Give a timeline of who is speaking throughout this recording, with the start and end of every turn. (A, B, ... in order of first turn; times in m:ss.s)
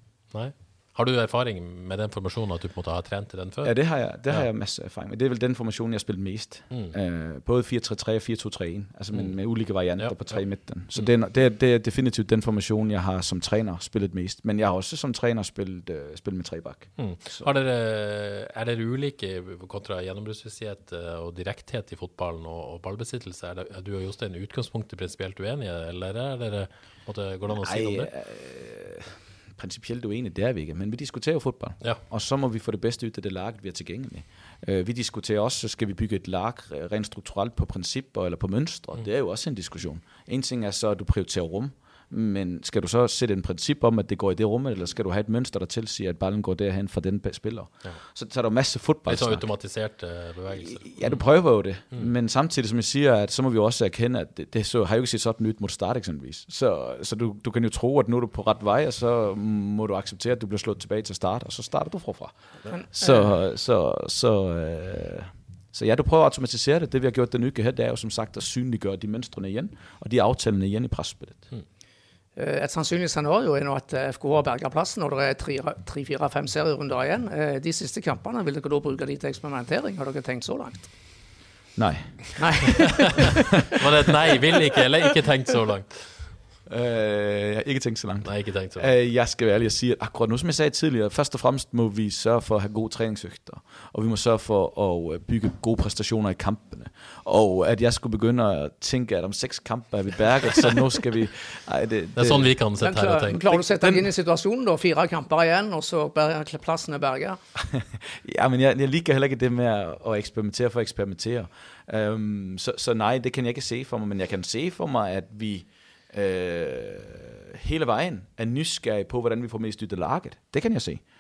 0:00.3-0:03.7 A
0:03.6-0:17.5 B
0:10.0-0:10.4 A
0:17.0-0:28.1 A
0:27.5-0:49.5 B
0:49.1-0:51.2 A
0:50.6-1:02.3 B
1:02.7-1:03.1 C
1:02.9-1:11.5 B
1:12.4-1:20.9 C
1:21.8-1:22.5 B
1:22.4-1:23.4 C
1:23.8-1:26.3 A
1:26.7-1:42.6 B
1:28.2-1:28.9 A
1:42.2-1:43.7 A
1:42.8-1:47.4 C
1:47.6-2:01.0 B